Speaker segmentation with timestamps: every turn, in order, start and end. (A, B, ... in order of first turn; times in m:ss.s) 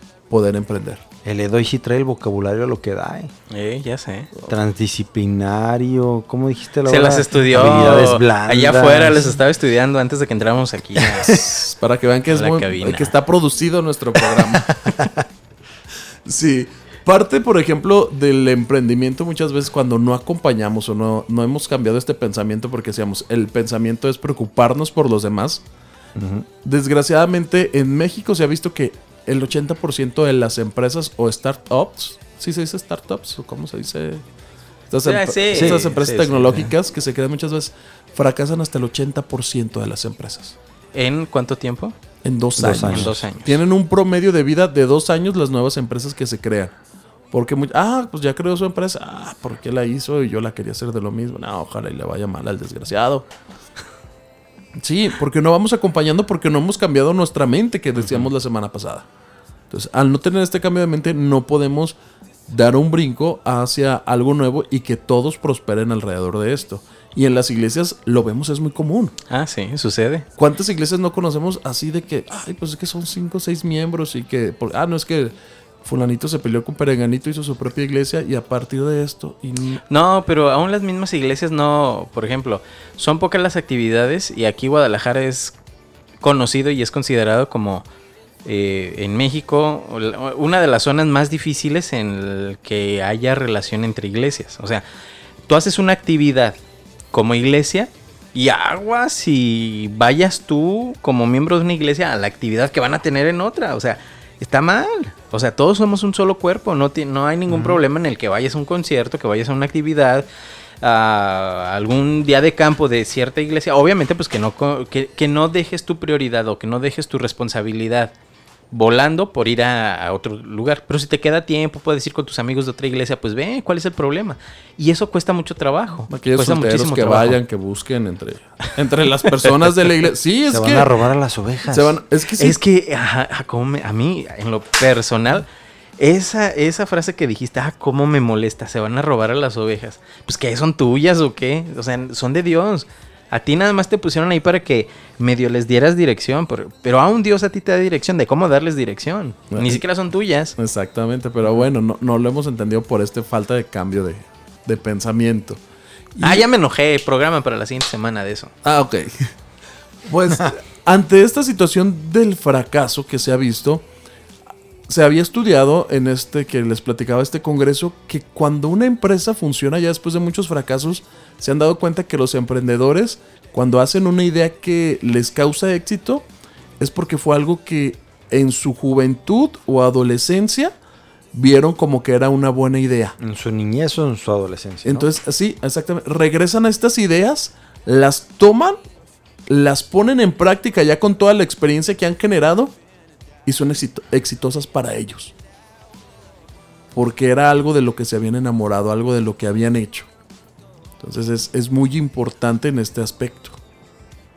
0:00.3-0:01.0 A
0:01.2-0:03.3 B
0:03.5-0:04.3 C
0:04.5-0:09.3 B
0:06.9-0:11.5 C
0:11.6-0:14.9 A
0:12.3-0:13.1 C
0:16.2-0:25.6 A
0:26.2-0:26.5 B
0:26.6-0:34.2 A
0:34.9-0:40.5 A
0:35.0-0:36.7 C
0:35.5-0:35.9 B
0:40.9-0:42.0 C
0:42.2-0:46.7 A
0:42.6-0:43.2 B
0:42.7-0:43.5 C
0:47.3-0:53.2 A
0:54.8-0:59.0 A
0:59.7-1:09.1 A
1:09.3-1:10.2 C
1:10.4-1:19.8 A
1:19.9-1:25.5 C
1:26.2-1:27.8 C
1:28.4-1:34.8 C
1:35.5-1:36.6 C
1:37.1-1:50.2 C
1:47.5-1:47.8 B
1:50.8-1:58.1 C
1:58.7-2:07.4 C
2:06.1-2:10.9 A
2:10.5-2:12.0 B
2:11.7-2:12.6 A
2:12.4-2:15.5 C
2:16.0-2:30.5 C
2:29.5-2:29.8 A
2:30.6-2:35.6 A
2:36.2-2:36.4 A
2:36.2-2:38.5 C
2:38.6-2:39.3 A
2:40.0-2:43.8 A
2:44.9-2:56.2 A
2:56.8-3:00.7 A
3:01.3-3:03.1 A
3:03.2-3:05.1 B
3:04.8-3:08.8 A
3:09.5-3:12.7 A
3:13.4-3:15.3 A
3:16.9-3:20.1 A
3:21.0-3:23.6 A